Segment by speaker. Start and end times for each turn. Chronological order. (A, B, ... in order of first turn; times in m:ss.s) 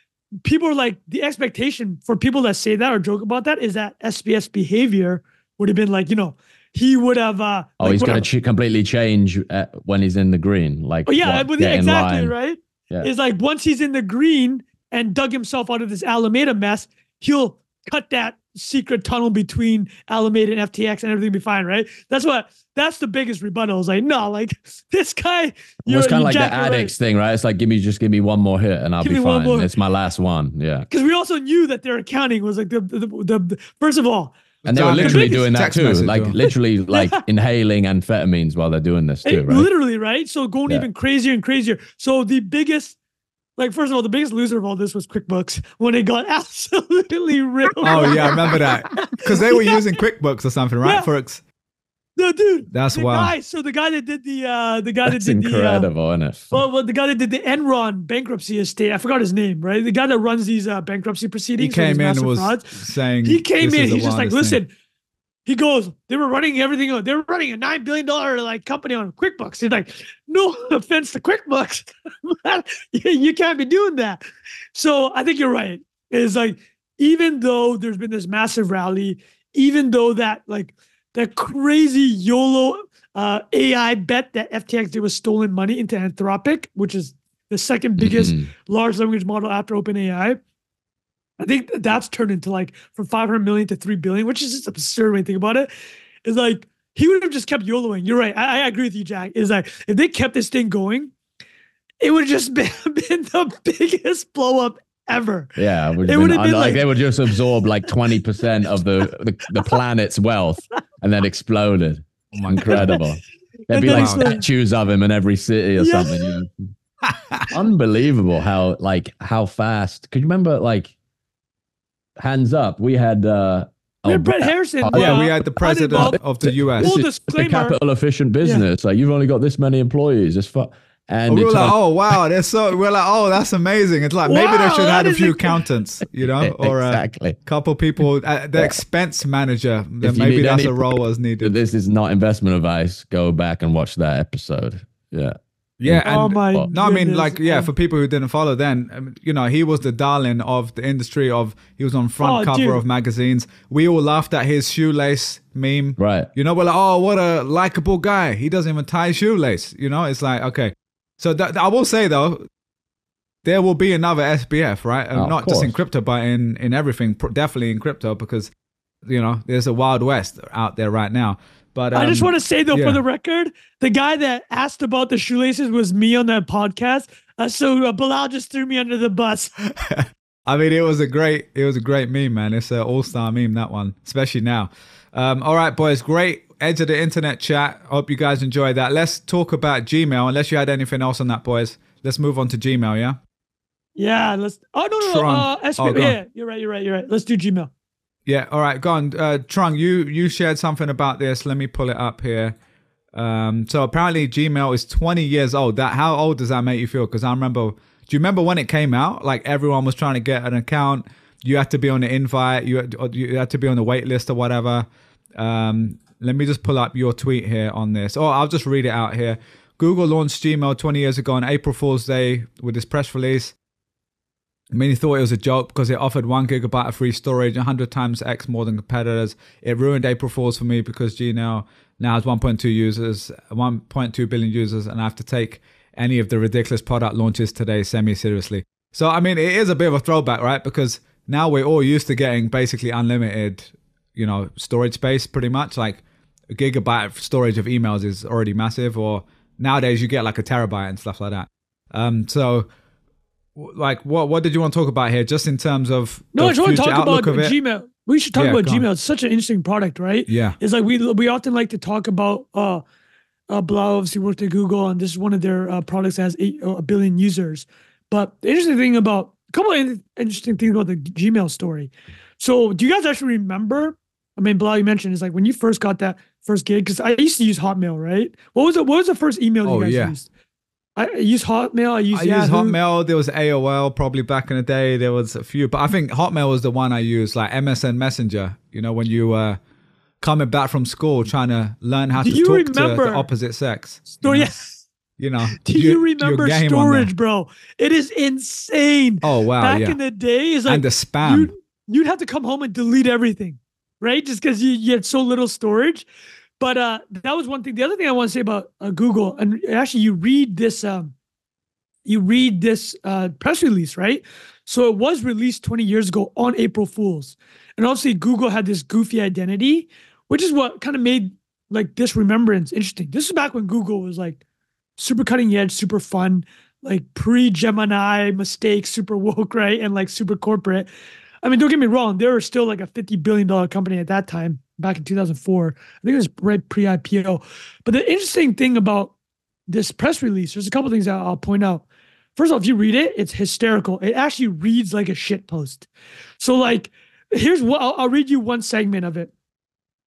0:00.4-0:08.2 A
0:07.8-0:12.3 B
0:11.0-0:26.9 A
0:25.8-0:30.9 B
0:29.0-0:29.7 A
0:30.9-0:34.4 A
0:34.6-0:36.3 C
0:34.6-0:39.7 B
0:35.0-0:35.5 A
0:36.4-0:37.2 A
0:39.2-0:43.0 A
0:43.6-0:49.8 A
0:47.8-0:51.4 C
0:50.8-0:51.1 A
0:52.2-0:55.9 A
0:52.7-0:53.3 C
0:55.0-0:56.6 B
0:56.5-1:04.7 A
1:01.6-1:04.6 C
1:05.5-1:14.2 A
1:14.7-1:30.4 A
1:28.0-1:28.5 B
1:31.4-1:35.7 A
1:36.2-1:41.1 A
1:42.0-1:48.0 A
1:45.6-1:56.5 B
1:52.3-1:52.9 C
1:52.6-1:53.0 A
1:53.7-1:54.4 A
1:53.8-1:54.3 C
1:55.8-1:56.4 A
1:57.0-1:57.5 C
1:57.5-2:00.9 B
2:02.2-2:05.2 B
2:04.0-2:06.2 A
2:04.9-2:07.0 C
2:05.9-2:11.8 B
2:06.8-2:07.8 A
2:11.3-2:21.5 C
2:14.2-2:15.6 A
2:16.2-2:17.4 B
2:20.0-2:26.7 B
2:25.8-2:42.4 C
2:26.0-2:27.7 A
2:32.2-2:32.8 A
2:36.0-2:36.3 B
2:43.4-2:48.5 C
2:45.1-2:45.8 B
2:49.0-2:53.0 C
2:51.9-2:59.5 A
2:59.6-3:13.2 C
3:14.0-3:17.7 A
3:15.0-3:16.2 C
3:18.2-3:22.5 C
3:23.1-3:43.5 C
3:44.7-4:12.7 C
4:13.6-4:17.5 C
4:16.3-4:22.8 A
4:18.3-4:18.8 C
4:20.3-4:20.6 C
4:23.5-4:40.3 A
4:39.6-4:40.1 C
4:41.0-4:42.8 A
4:42.1-4:49.6 C
4:50.2-4:54.5 C
4:52.2-4:53.3 A
4:54.1-4:54.8 A
4:55.2-4:57.1 C
4:55.5-5:06.0 A
4:59.2-5:00.0 C
5:00.7-5:01.5 C
5:06.6-5:11.1 A
5:12.0-5:24.4 A
5:25.0-5:30.9 A
5:31.4-5:39.1 A
5:39.7-5:41.8 A
5:42.4-5:45.9 A
5:46.4-5:49.3 A